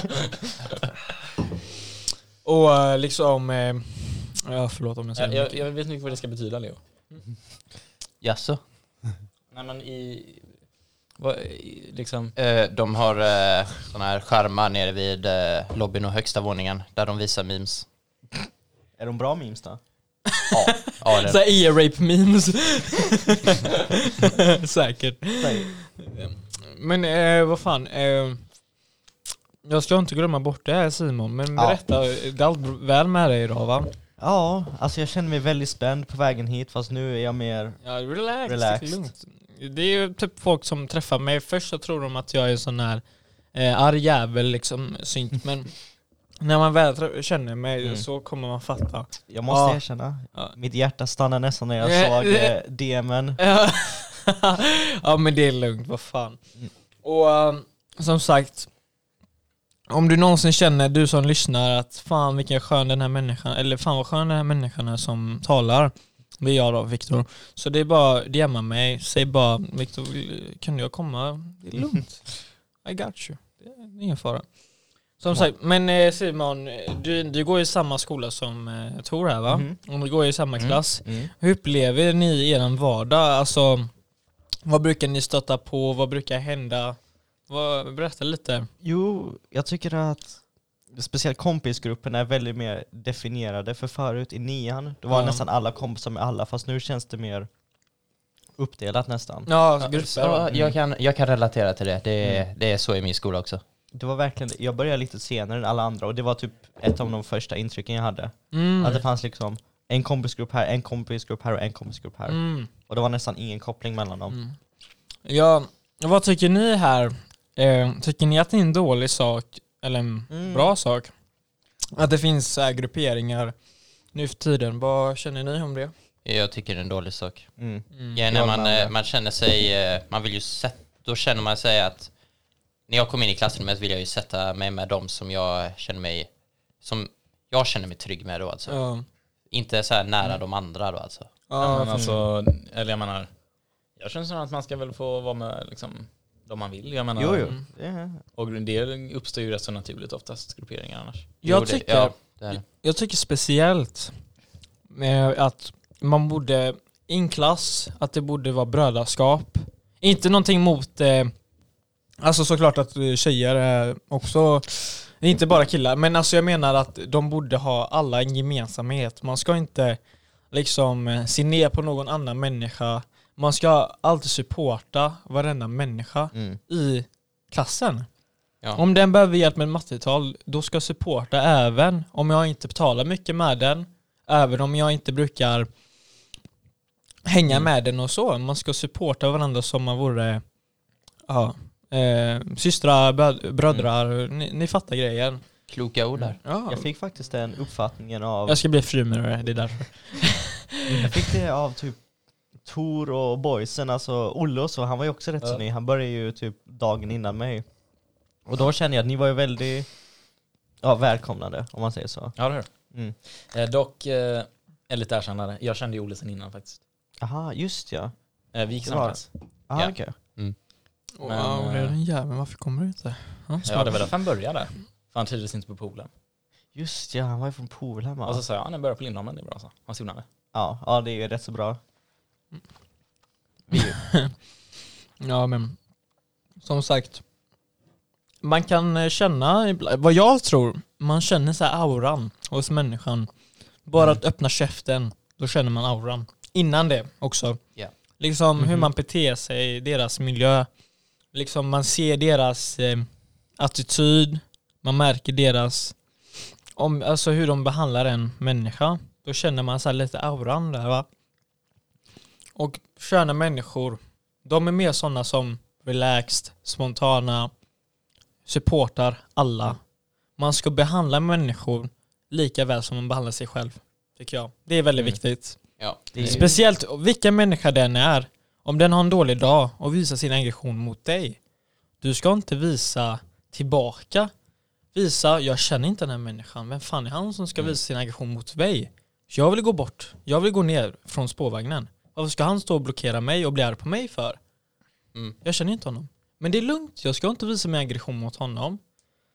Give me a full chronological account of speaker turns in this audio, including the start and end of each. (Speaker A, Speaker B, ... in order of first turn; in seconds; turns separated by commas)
Speaker A: 2.4-5.6, Speaker B: 5.2-6.8, Speaker C: 8.2-8.6, Speaker B: 9.5-10.5, Speaker B: 11.2-12.3, Speaker C: 12.3-17.9, Speaker D: 19.0-19.8, Speaker A: 20.3-28.4, Speaker C: 20.5-21.4, Speaker D: 25.4-25.7, Speaker A: 29.6-33.9, Speaker D: 34.2-37.8, Speaker A: 37.8-45.7, Speaker D: 38.5-39.1, Speaker A: 46.4-49.8, Speaker D: 49.3-53.4, Speaker A: 51.8-52.5, Speaker A: 53.4-56.4, Speaker A: 57.0-58.7, Speaker A: 59.9-74.4, Speaker A: 75.2-83.9, Speaker D: 79.5-79.8, Speaker D: 81.0-81.3, Speaker A: 84.7-87.0, Speaker A: 87.5-88.7, Speaker D: 88.8-90.4, Speaker D: 90.9-97.5, Speaker A: 95.1-95.4, Speaker D: 98.6-99.5, Speaker A: 99.5-100.5, Speaker C: 99.8-103.6, Speaker D: 103.9-114.3, Speaker A: 108.5-109.0, Speaker A: 112.3-112.7, Speaker A: 114.3-114.5, Speaker A: 115.2-121.1, Speaker D: 120.3-120.7, Speaker A: 121.9-123.5, Speaker A: 124.1-125.9, Speaker C: 126.2-127.5, Speaker D: 127.6-128.9, Speaker C: 128.1-132.1, Speaker C: 132.9-136.3, Speaker C: 136.8-138.8, Speaker A: 138.7-139.0, Speaker C: 139.5-141.3, Speaker A: 141.5-142.0, Speaker B: 141.6-143.3, Speaker D: 141.9-142.2, Speaker B: 144.0-147.5, Speaker D: 147.2-148.2, Speaker B: 148.3-151.3, Speaker A: 151.4-154.1, Speaker C: 151.4-152.6, Speaker A: 154.9-161.3, Speaker A: 162.2-170.0, Speaker A: 170.5-178.1, Speaker D: 176.3-176.6, Speaker A: 178.8-185.7, Speaker A: 187.2-190.4, Speaker A: 191.3-195.4, Speaker C: 195.7-196.4, Speaker A: 196.4-196.9, Speaker D: 196.7-198.6, Speaker A: 198.5-201.1, Speaker D: 200.9-202.0, Speaker D: 202.6-207.6, Speaker D: 208.5-209.9, Speaker D: 210.8-212.3, Speaker B: 212.4-212.7, Speaker D: 212.9-213.2, Speaker B: 213.5-216.8, Speaker D: 217.2-218.1, Speaker B: 218.5-219.3, Speaker D: 218.8-220.1, Speaker C: 219.7-220.6, Speaker A: 221.2-224.0, Speaker B: 221.2-221.9, Speaker B: 223.7-226.1, Speaker D: 226.7-228.4, Speaker B: 228.2-230.2, Speaker D: 230.5-231.8, Speaker D: 233.7-233.9, Speaker A: 233.7-234.3, Speaker A: 235.2-235.8, Speaker A: 236.6-237.2, Speaker A: 238.4-243.3, Speaker A: 243.8-247.6, Speaker A: 248.2-250.7, Speaker A: 251.3-253.1, Speaker A: 253.6-255.9, Speaker A: 256.8-261.1, Speaker A: 262.6-267.5, Speaker A: 268.4-269.8, Speaker A: 270.4-275.6, Speaker C: 275.8-276.4, Speaker D: 276.1-276.6, Speaker A: 276.2-281.4, Speaker A: 282.0-284.3, Speaker A: 284.9-294.4, Speaker A: 295.4-298.8